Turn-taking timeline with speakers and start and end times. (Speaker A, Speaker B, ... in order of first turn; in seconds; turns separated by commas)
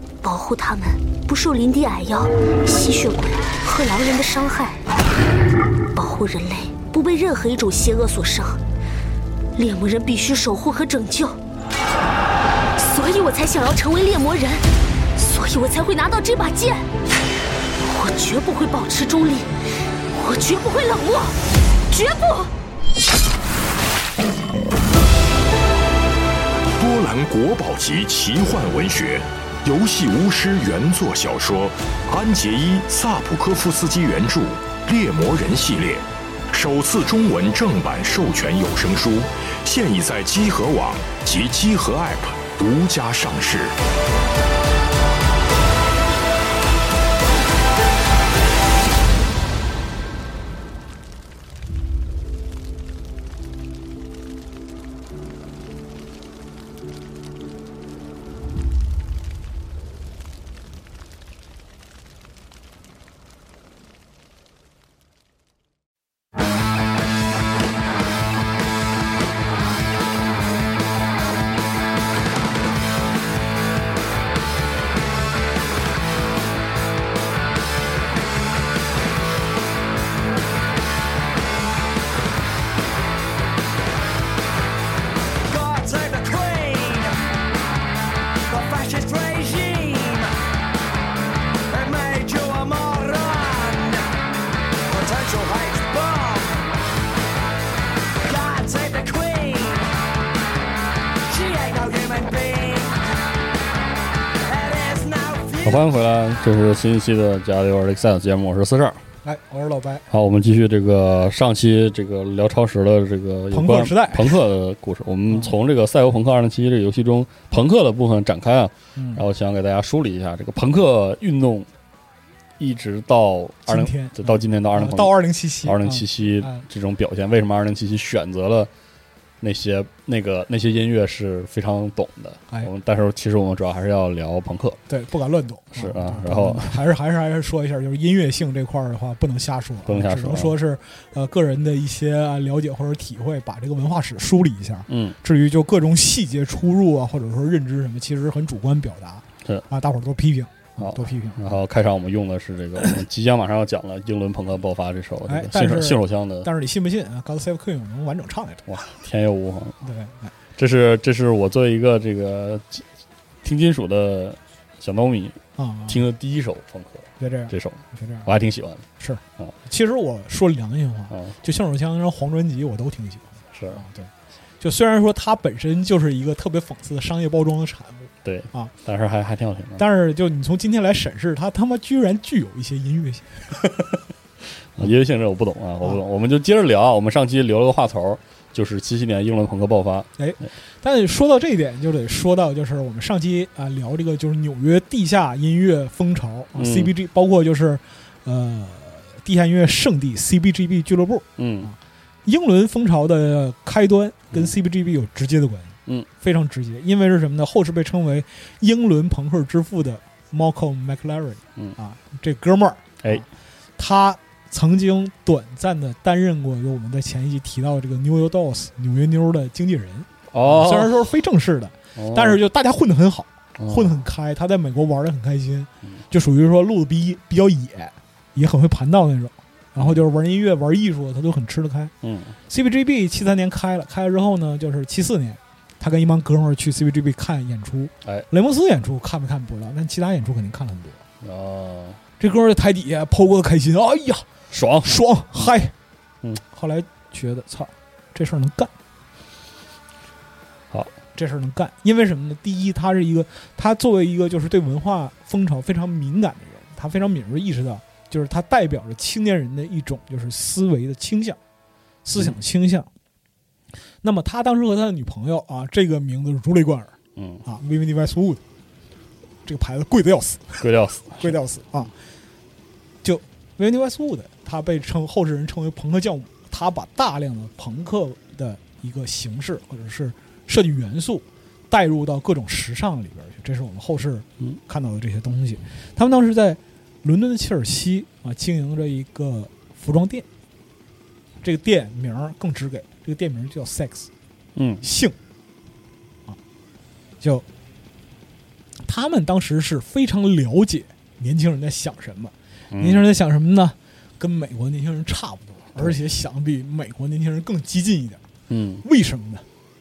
Speaker A: 0.2-4.8, Speaker A: 6.0-8.6, Speaker A: 9.6-11.4, Speaker A: 12.8-16.9, Speaker A: 17.8-19.5, Speaker A: 20.1-21.4, Speaker A: 21.9-22.5, Speaker B: 26.8-43.8, Speaker C: 85.5-87.2, Speaker C: 88.5-90.4, Speaker C: 91.7-94.1, Speaker C: 94.9-96.7, Speaker C: 98.2-100.0, Speaker C: 101.3-103.0, Speaker C: 104.4-105.9, Speaker D: 105.6-109.0, Speaker E: 109.2-110.1, Speaker D: 110.1-121.7, Speaker E: 113.5-114.4, Speaker E: 119.0-119.2, Speaker D: 122.6-128.7, Speaker E: 123.7-126.7, Speaker D: 129.4-134.8, Speaker E: 134.9-151.5, Speaker D: 135.8-136.8, Speaker D: 139.9-140.6, Speaker D: 144.9-145.2, Speaker D: 150.8-156.5, Speaker E: 155.3-158.6, Speaker D: 158.7-159.8, Speaker E: 159.8-160.3, Speaker D: 160.6-162.8, Speaker D: 163.4-168.9, Speaker E: 165.6-166.0, Speaker E: 167.2-168.3, Speaker E: 169.0-178.7, Speaker D: 171.1-171.4, Speaker D: 173.5-173.8, Speaker D: 178.2-179.8, Speaker E: 179.8-183.5, Speaker D: 183.6-184.0, Speaker D: 184.8-190.1, Speaker E: 190.2-213.3, Speaker D: 196.6-196.9, Speaker D: 201.4-201.7, Speaker E: 213.8-231.9, Speaker D: 220.3-221.1, Speaker D: 222.0-222.4, Speaker D: 223.6-224.0, Speaker D: 229.8-230.0, Speaker D: 232.0-232.4, Speaker E: 232.5-241.0, Speaker D: 241.2-242.0, Speaker E: 242.2-244.3, Speaker D: 244.5-245.0, Speaker E: 244.8-245.7, Speaker E: 246.4-248.7, Speaker E: 251.2-261.4, Speaker E: 262.1-262.9, Speaker E: 264.0-268.4, Speaker D: 267.2-267.5, Speaker E: 269.5-271.9, Speaker D: 270.6-271.4, Speaker E: 273.0-290.3, Speaker E: 291.4-294.1, Speaker D: 294.6-294.9, Speaker E: 294.8-295.2, Speaker E: 298.8-308.2, Speaker D: 302.7-303.1, Speaker D: 308.5-308.9, Speaker E: 308.8-309.4